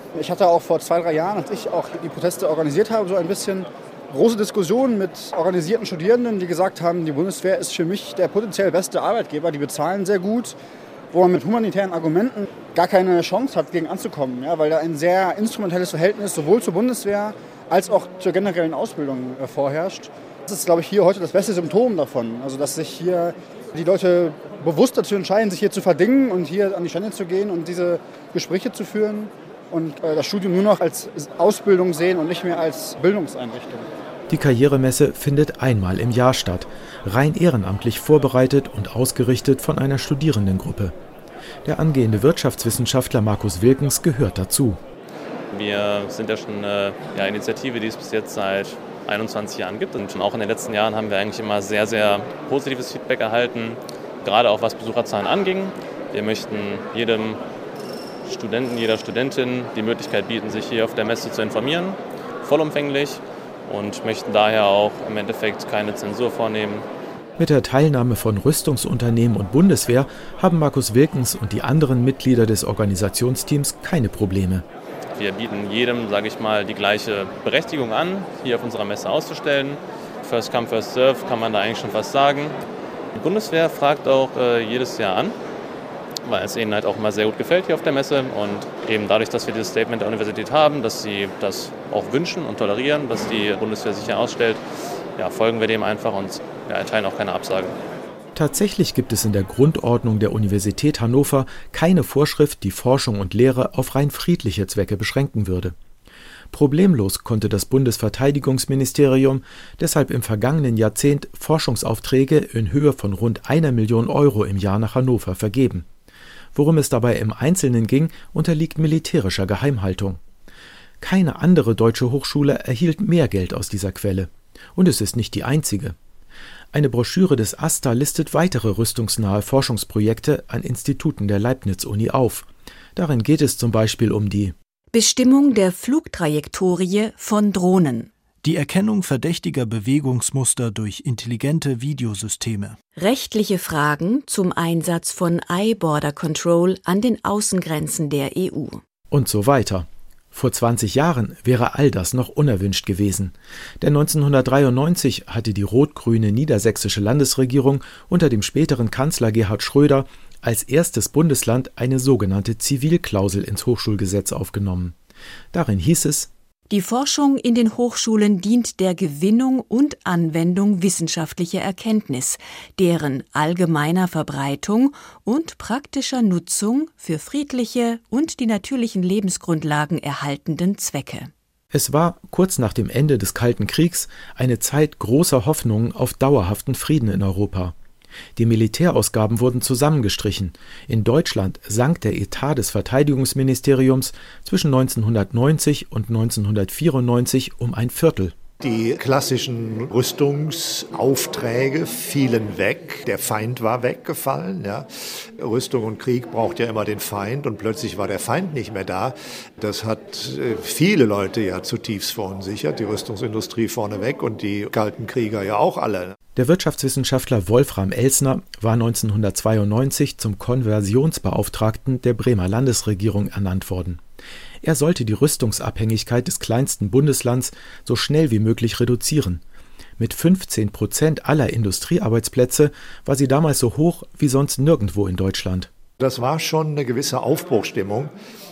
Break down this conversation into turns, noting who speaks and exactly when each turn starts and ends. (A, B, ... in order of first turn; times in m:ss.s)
0:00.1-0:10.6 A
0:11.1-0:33.9 A
0:34.3-0:40.9 B
0:41.6-0:44.8 B
0:45.5-0:57.4 C
0:58.2-1:06.8 C
1:07.4-1:14.6 B
1:15.1-1:22.6 C
1:23.1-1:25.4 C
1:26.2-1:34.6 C
1:35.2-1:37.8 C
1:38.3-1:45.7 B
1:46.5-1:55.8 B
1:56.5-2:00.2 B
2:01.0-2:06.0 B
2:06.7-2:14.5 B
2:14.9-2:18.1 D
2:18.4-2:22.8 E
2:23.0-2:28.8 D
2:29.1-2:44.9 B
2:45.5-2:46.3 B
2:46.7-3:01.3 D
3:01.7-3:07.7 B
3:08.4-3:18.3 B
3:18.6-3:36.2 F
3:36.4-3:44.0 B
3:44.6-3:49.4 B
3:50.0-3:55.7 B
3:56.0-3:58.1 F